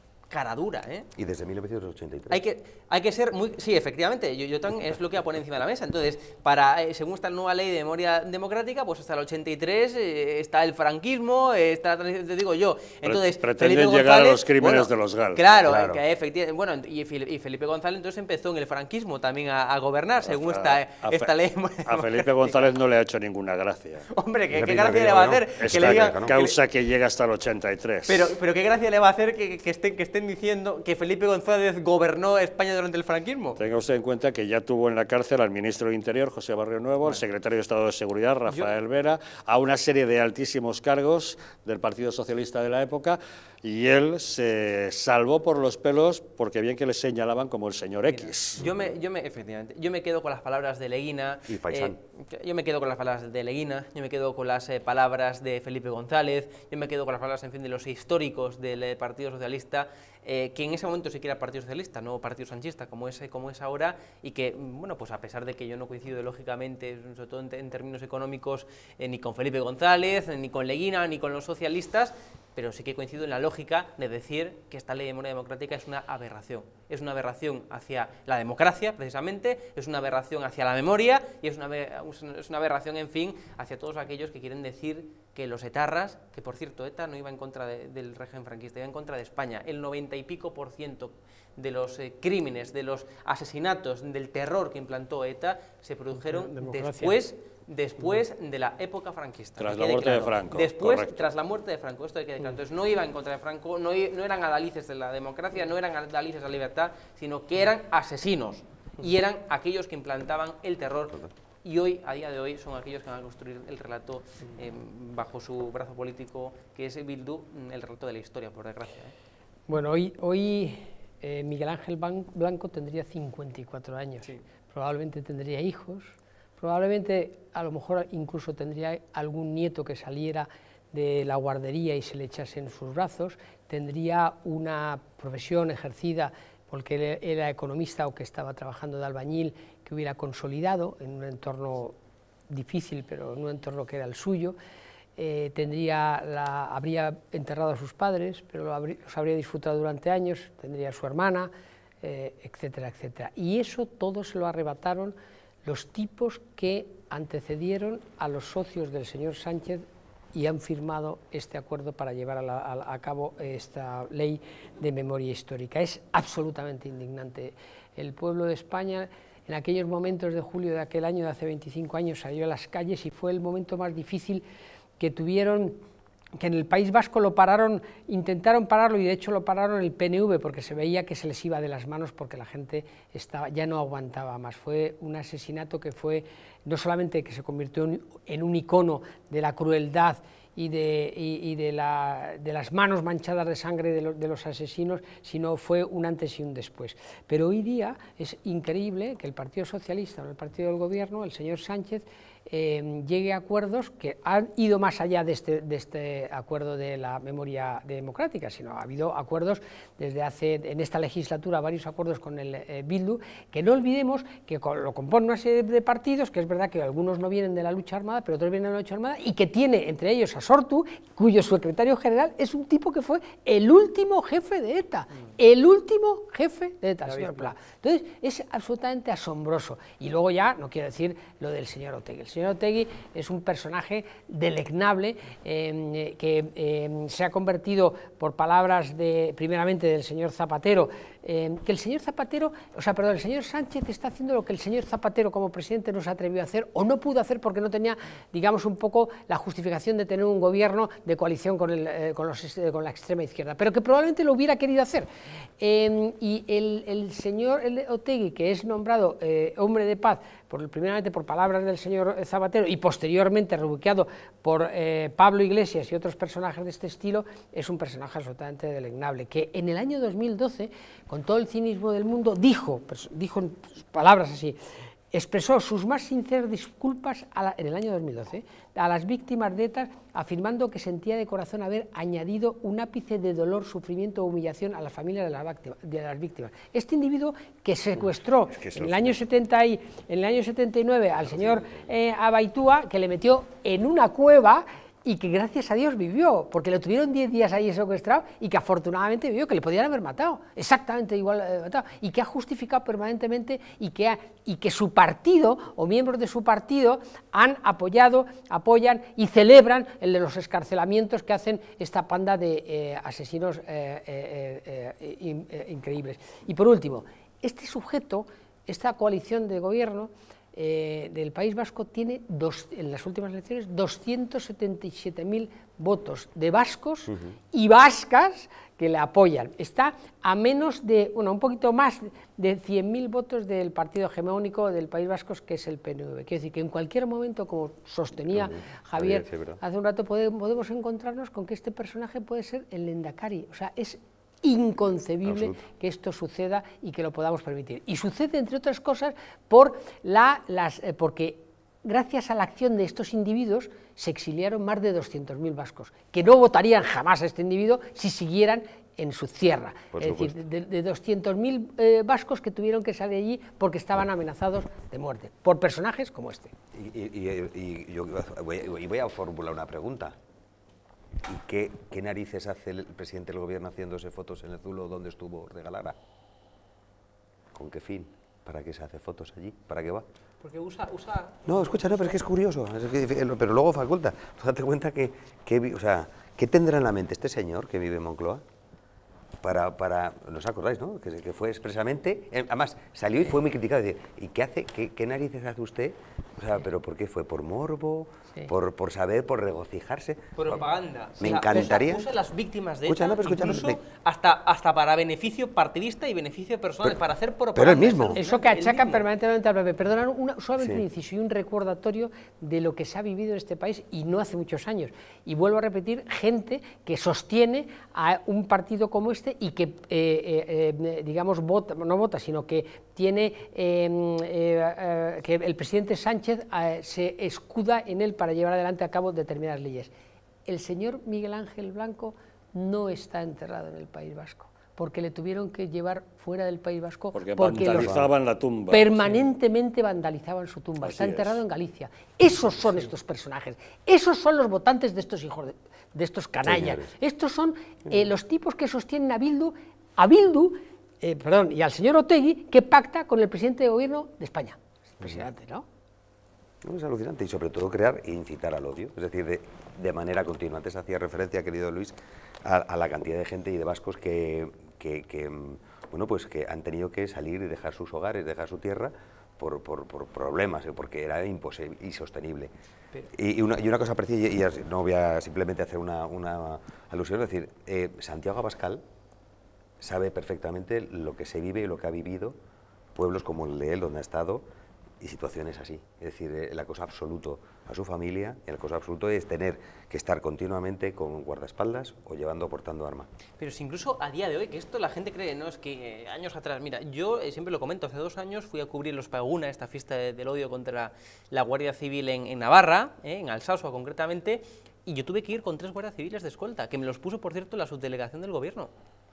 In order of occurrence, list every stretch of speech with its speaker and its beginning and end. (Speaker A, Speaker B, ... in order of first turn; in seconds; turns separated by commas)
Speaker A: 0.3-1.1, Speaker B: 1.1-2.4, Speaker A: 2.3-22.6, Speaker C: 13.0-15.4, Speaker B: 15.6-16.0, Speaker C: 20.2-21.3, Speaker C: 21.9-24.0, Speaker A: 24.1-26.6, Speaker B: 24.5-26.3, Speaker C: 25.6-28.2, Speaker A: 28.1-33.6, Speaker C: 33.6-48.6, Speaker A: 48.1-119.1, Speaker B: 48.6-48.9, Speaker B: 51.5-52.0, Speaker D: 96.2-97.1, Speaker C: 99.6-101.2, Speaker D: 119.7-141.9, Speaker D: 142.5-144.6, Speaker D: 145.2-151.5, Speaker D: 152.0-174.4, Speaker D: 175.0-175.8, Speaker D: 176.4-255.1, Speaker D: 255.6-274.6, Speaker D: 275.1-366.5, Speaker B: 288.5-289.2, Speaker B: 291.2-291.9, Speaker B: 327.1-327.4, Speaker B: 338.3-339.6, Speaker B: 345.2-345.6, Speaker B: 359.9-360.4, Speaker B: 366.7-370.1, Speaker B: 371.2-376.0, Speaker B: 377.5-380.1, Speaker A: 380.4-382.2, Speaker B: 381.4-388.4, Speaker B: 389.4-400.6, Speaker A: 400.4-409.0, Speaker B: 401.2-402.1, Speaker B: 402.8-403.8, Speaker B: 407.5-408.2, Speaker D: 408.2-429.9, Speaker D: 430.4-438.0, Speaker C: 437.1-439.2, Speaker B: 437.7-438.1, Speaker D: 438.7-455.6, Speaker C: 440.8-441.4, Speaker B: 446.4-446.9, Speaker B: 456.6-472.5, Speaker B: 473.1-478.8, Speaker B: 479.8-482.4, Speaker B: 482.9-484.4, Speaker B: 485.0-493.1, Speaker A: 493.4-508.7